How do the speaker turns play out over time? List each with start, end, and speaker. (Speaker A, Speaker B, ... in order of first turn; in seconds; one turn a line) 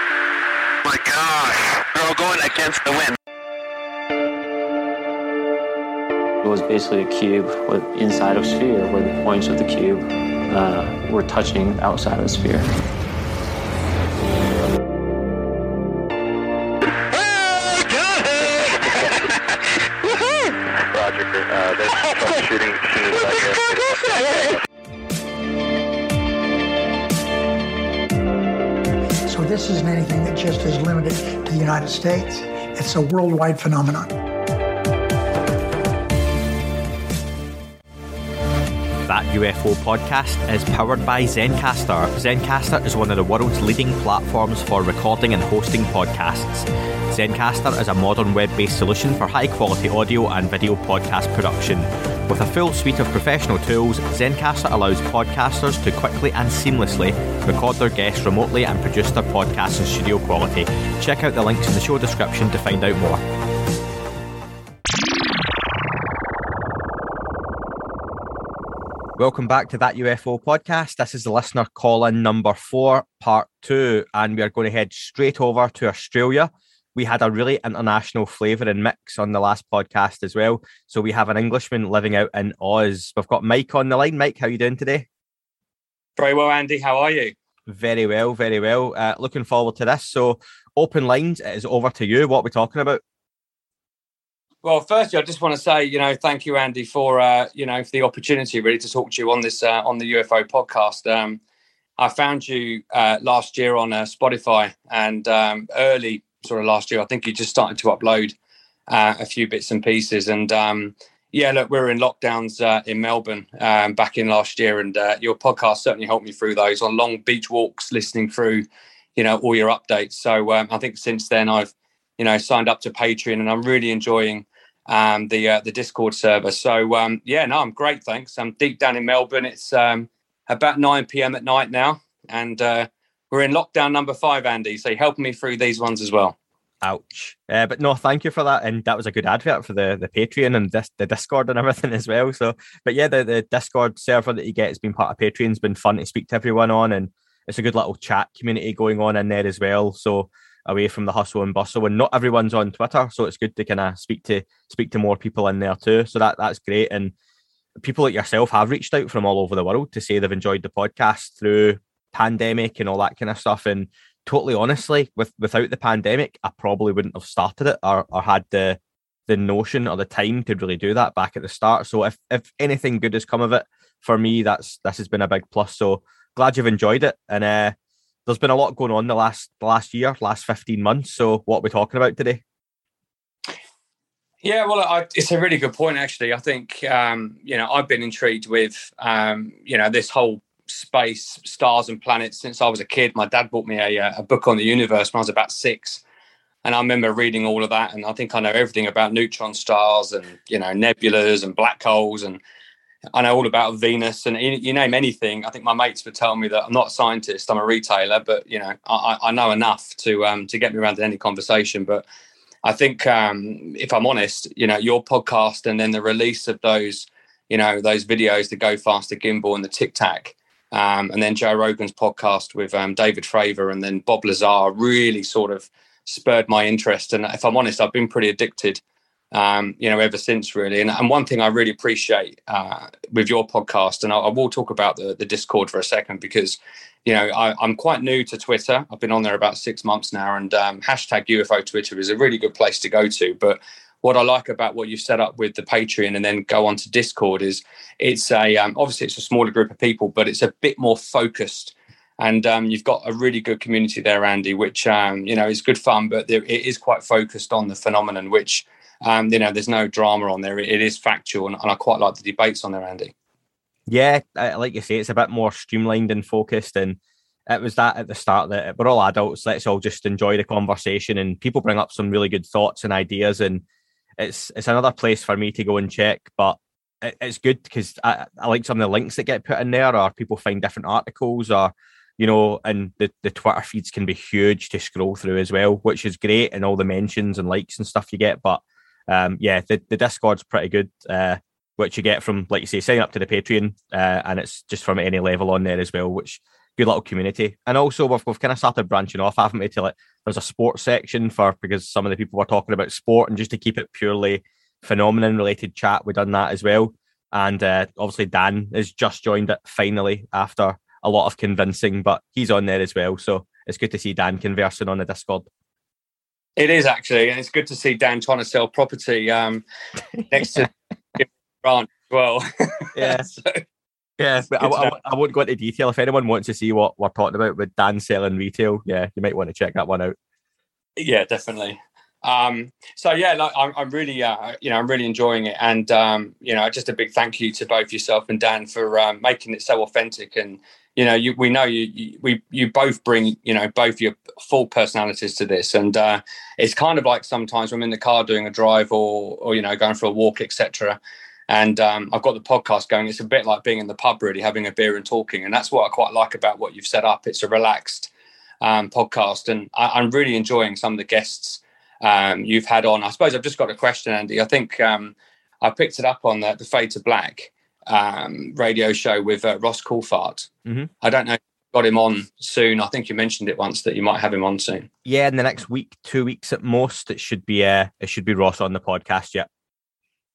Speaker A: 0.8-3.1
Speaker B: 6.4-12.7
Speaker A: 18.4-19.3
Speaker A: 20.9-24.1
Speaker C: 29.2-34.1
Speaker D: 39.0-63.2
Speaker D: 69.2-85.1
Speaker E: 86.2-87.3
Speaker D: 87.7-93.0
Speaker E: 94.6-101.4
Speaker E: 102.0-108.3
Speaker E: 108.9-136.3
Speaker D: 136.8-157.1
Speaker D: 157.8-177.7
Speaker D: 178.2-182.4
Speaker E: 184.4-196.0
Speaker E: 196.6-202.4
Speaker E: 203.1-212.0
Speaker E: 212.6-228.8
Speaker E: 229.3-263.1
Speaker D: 263.9-273.6
Speaker D: 274.2-315.5
Speaker E: 316.6-319.6
Speaker D: 320.2-320.7
Speaker E: 320.3-323.6
Speaker D: 322.9-323.2
Speaker D: 324.2-330.1
Speaker E: 324.6-325.0
Speaker E: 331.0-358.1
Speaker E: 358.6-370.5
Speaker E: 371.0-374.9
Speaker D: 375.0-379.5